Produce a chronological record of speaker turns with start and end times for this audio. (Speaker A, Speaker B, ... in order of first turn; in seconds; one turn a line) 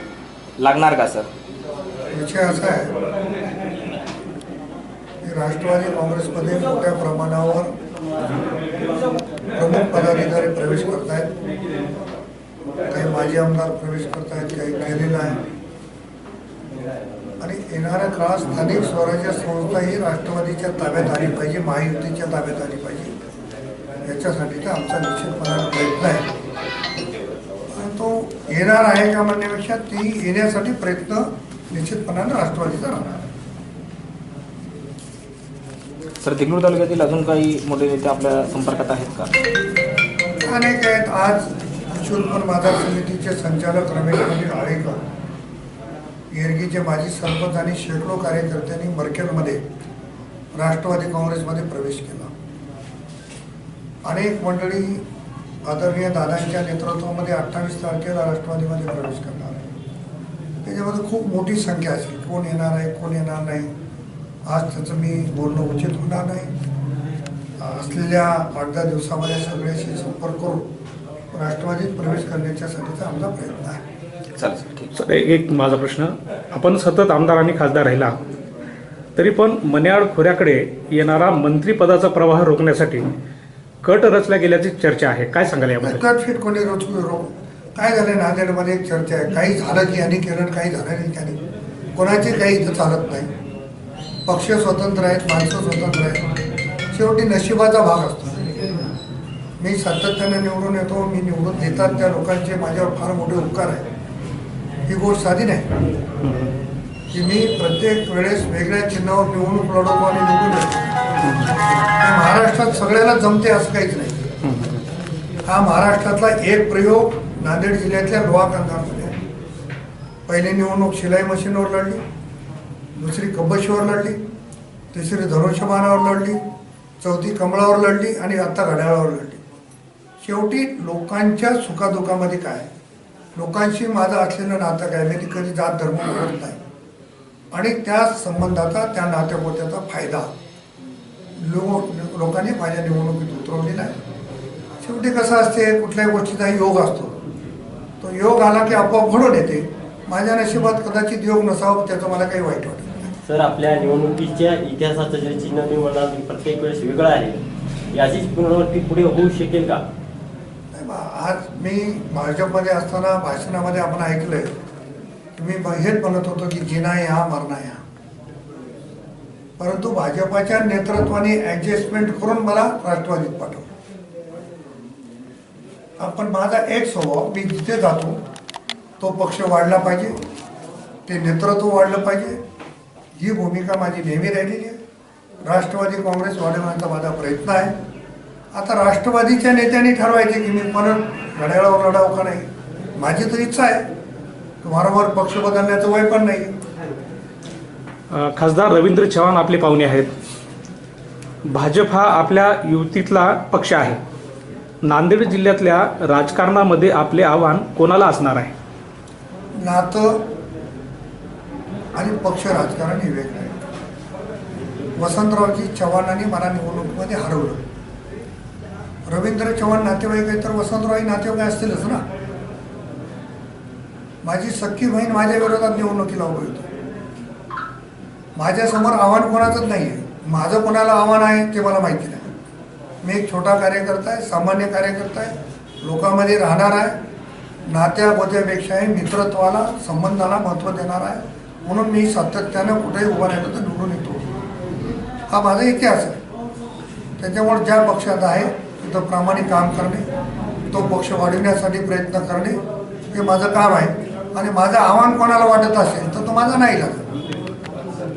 Speaker A: 0.6-1.3
Speaker B: 2.1-2.9
Speaker B: 5.2-7.7
Speaker B: 9.6-11.3
Speaker B: 12.9-15.4
Speaker B: 17.4-23.1
Speaker B: 24.1-26.3
Speaker B: 27.7-33.2
Speaker A: 36.2-39.3
Speaker B: 40.4-45.0
Speaker B: 46.3-49.6
Speaker B: 50.5-52.3
Speaker B: 54.1-55.0
Speaker B: 55.7-59.7
Speaker B: 60.6-63.7
Speaker B: 64.5-66.5
Speaker B: 67.6-70.7
Speaker B: 71.3-73.8
Speaker A: 74.4-74.9
Speaker C: 74.9-78.1
Speaker C: 79.2-83.1
Speaker C: 83.8-86.0
Speaker B: 85.8-91.4
Speaker B: 92.0-93.3
Speaker B: 94.3-96.2
Speaker B: 96.9-98.5
Speaker B: 99.6-103.8
Speaker B: 104.9-105.7
Speaker C: 106.2-106.5
Speaker B: 107.1-110.9
Speaker C: 111.2-111.5
Speaker B: 112.0-114.3
Speaker C: 114.4-114.8
Speaker B: 115.5-119.2
Speaker B: 120.3-122.0
Speaker B: 123.0-124.2
Speaker B: 124.9-126.4
Speaker B: 127.0-129.4
Speaker B: 130.2-132.7
Speaker B: 133.3-136.6
Speaker B: 137.5-140.3
Speaker B: 141.4-144.0
Speaker B: 144.8-147.2
Speaker B: 148.0-153.1
Speaker D: 153.3-157.4
Speaker D: 157.9-159.8
Speaker B: 160.7-164.5
Speaker B: 165.3-167.8
Speaker B: 169.6-173.7
Speaker B: 176.0-178.2
Speaker B: 179.0-180.2
Speaker B: 181.1-182.4
Speaker B: 183.2-184.8
Speaker B: 185.4-187.8
Speaker B: 188.5-193.8
Speaker B: 194.6-196.5
Speaker C: 198.1-200.1
Speaker C: 201.5-204.0
Speaker C: 204.8-208.5
Speaker B: 209.6-210.2
Speaker B: 212.0-213.6
Speaker B: 215.0-217.6
Speaker B: 219.1-222.0
Speaker B: 224.2-226.7
Speaker B: 228.4-232.3
Speaker B: 233.0-237.0
Speaker B: 237.7-244.2
Speaker B: 245.3-246.2
Speaker B: 247.2-250.1
Speaker B: 250.7-252.6
Speaker B: 253.1-257.0